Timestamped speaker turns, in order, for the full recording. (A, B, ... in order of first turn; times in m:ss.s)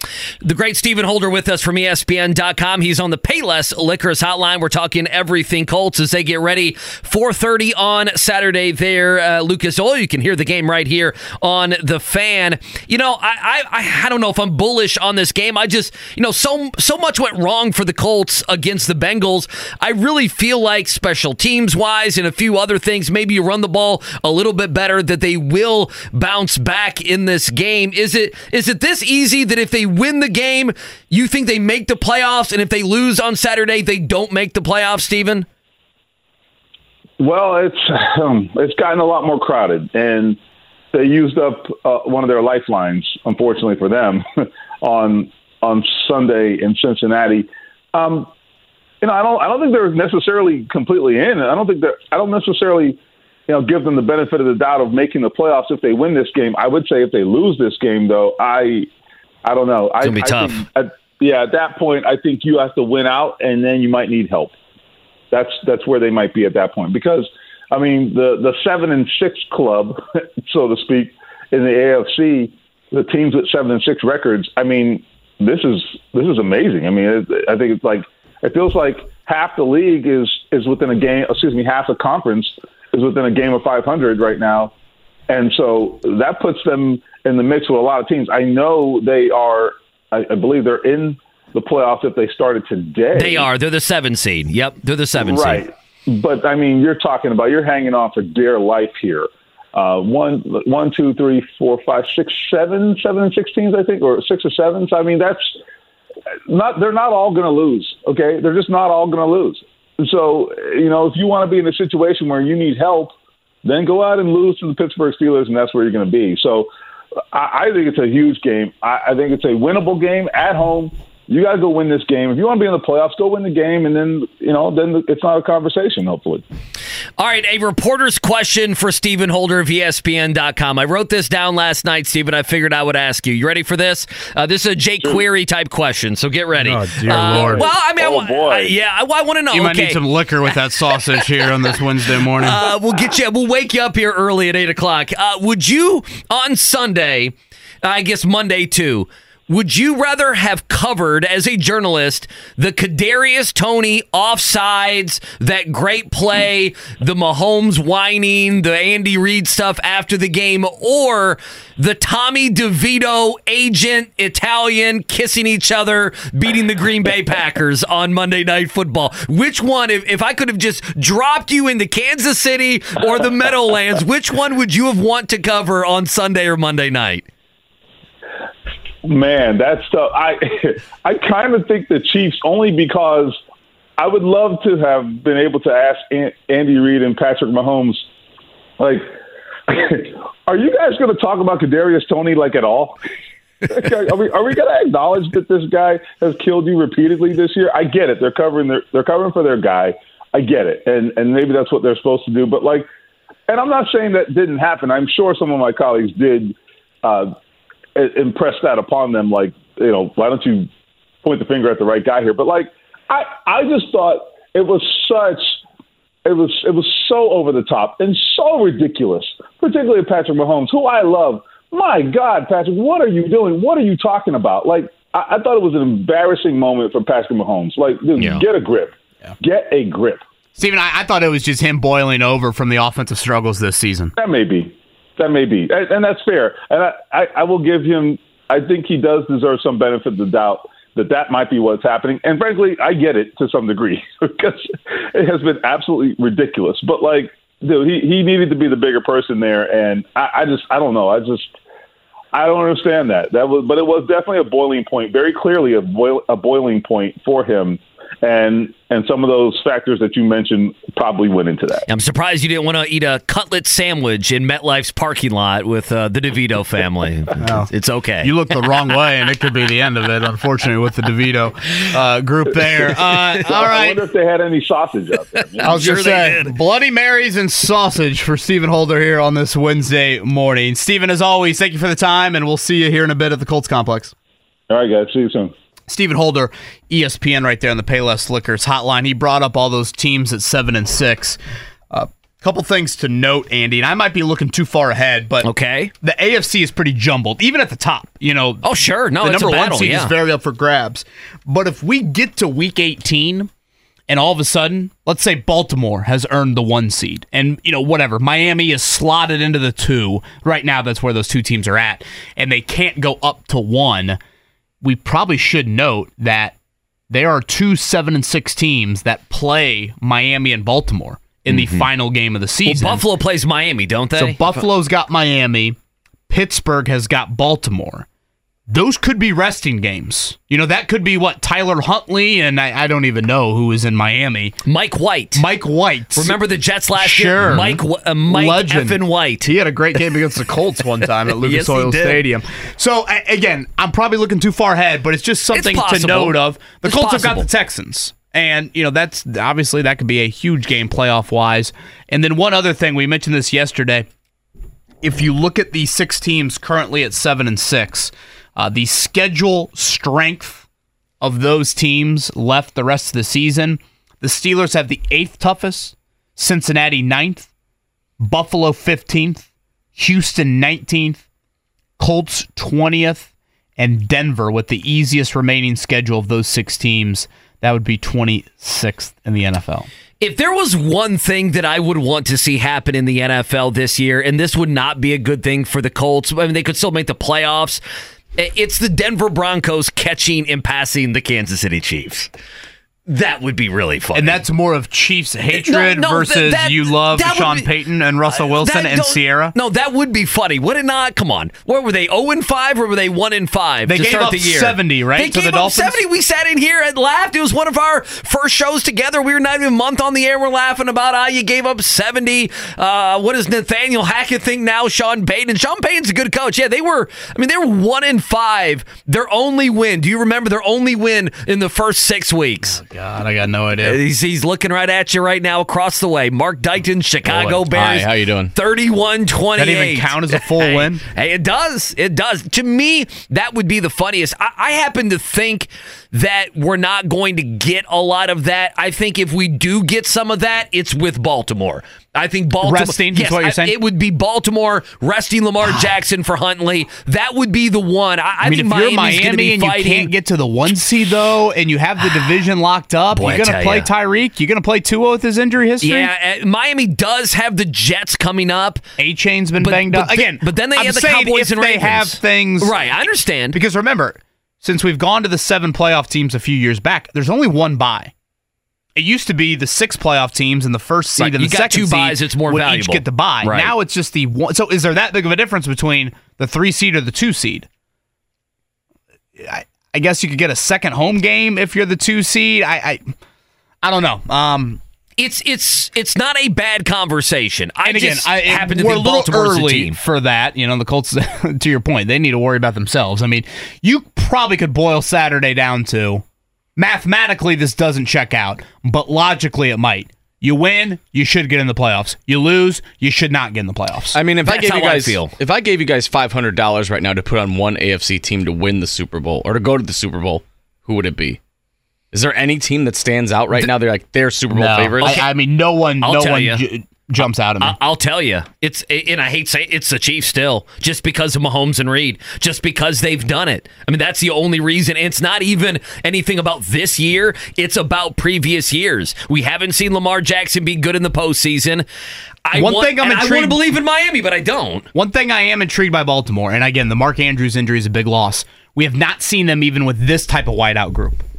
0:00.4-0:35.4 A
0:37.2-0:40.4 B
0:40.9-0:44.2 B
0:44.8-0:48.3 B
0:49.0-0:58.9 B
0:59.4-1:04.5 B
1:00.0-1:00.6 A
1:05.3-1:24.7 B
1:25.3-1:33.5 B
1:33.1-1:35.6 A
1:35.2-1:45.5 B
1:46.5-1:53.1 B
1:53.6-1:56.7 B
1:57.3-2:06.4 B
2:07.2-2:20.0 A
2:16.6-2:17.6 C
2:17.1-2:18.8 B
2:19.5-2:22.6 C
2:21.1-2:21.8 A
2:22.4-2:57.2 A
2:59.0-3:03.4 B
3:04.0-3:08.0 B
3:08.8-3:09.1 B
3:09.7-3:13.0 B
3:13.6-3:22.9 B
3:23.5-3:27.3 B
3:28.0-3:30.7 B
3:31.2-3:35.6 B
3:36.2-3:50.2 B
3:48.2-3:48.4 A
3:50.6-3:54.1 C
3:54.2-4:11.5 B
4:12.3-4:21.8 B
4:21.9-4:28.3 A
4:27.4-4:27.7 C
4:28.2-4:34.0 C
4:33.4-4:36.0 B
4:35.6-4:36.5 A
4:35.6-4:44.1 C
4:44.7-4:45.5 B
4:45.9-4:51.4 C
4:51.9-4:55.5 C
4:55.4-4:55.9 A
4:56.0-5:03.5 C
4:58.6-5:00.1 A
5:04.1-5:14.2 C
5:14.8-5:16.6 C
5:17.1-5:23.0 C
5:21.5-5:21.8 A
5:22.6-5:24.5 A
5:24.2-5:25.8 C
5:26.3-5:28.0 C
5:28.7-5:34.6 C
5:34.6-5:35.4 A
5:35.3-5:36.4 C
5:36.1-5:39.5 A
5:37.0-5:54.1 C
5:41.4-5:42.2 A
5:45.5-5:47.5 A
5:55.0-6:00.6 C
6:01.2-6:07.5 C
6:08.2-6:11.2 C
6:12.0-6:19.9 C
6:20.2-6:27.8 A
6:28.4-6:32.3 A
6:33.1-6:34.4 A
6:34.1-6:39.5 C
6:35.5-6:37.7 A
6:38.3-7:02.8 A
6:43.8-6:46.0 C
7:02.7-7:04.0 C
7:03.8-7:30.1 A
7:07.3-7:08.5 D
7:09.6-7:11.0 C
7:22.6-7:23.8 C
7:25.6-7:25.9 C
7:28.4-7:36.1 C
7:33.1-7:33.9 A
7:35.8-7:38.8 A
7:39.0-7:42.7 C
7:39.6-7:43.6 A
7:43.5-7:48.1 C
7:49.0-7:57.7 C
7:51.2-7:53.7 A
7:59.4-8:03.1 C
8:03.8-8:04.8 C
8:05.2-8:09.9 A
8:07.8-8:16.2 C
8:16.8-8:24.2 C
8:24.1-8:31.4 D
8:24.4-8:25.3 A
8:32.1-8:35.2 D
8:34.5-8:37.8 C
8:36.0-8:36.6 A
8:37.6-8:51.8 A
8:52.4-8:54.9 A
8:52.5-8:53.6 C
8:54.9-9:01.2 C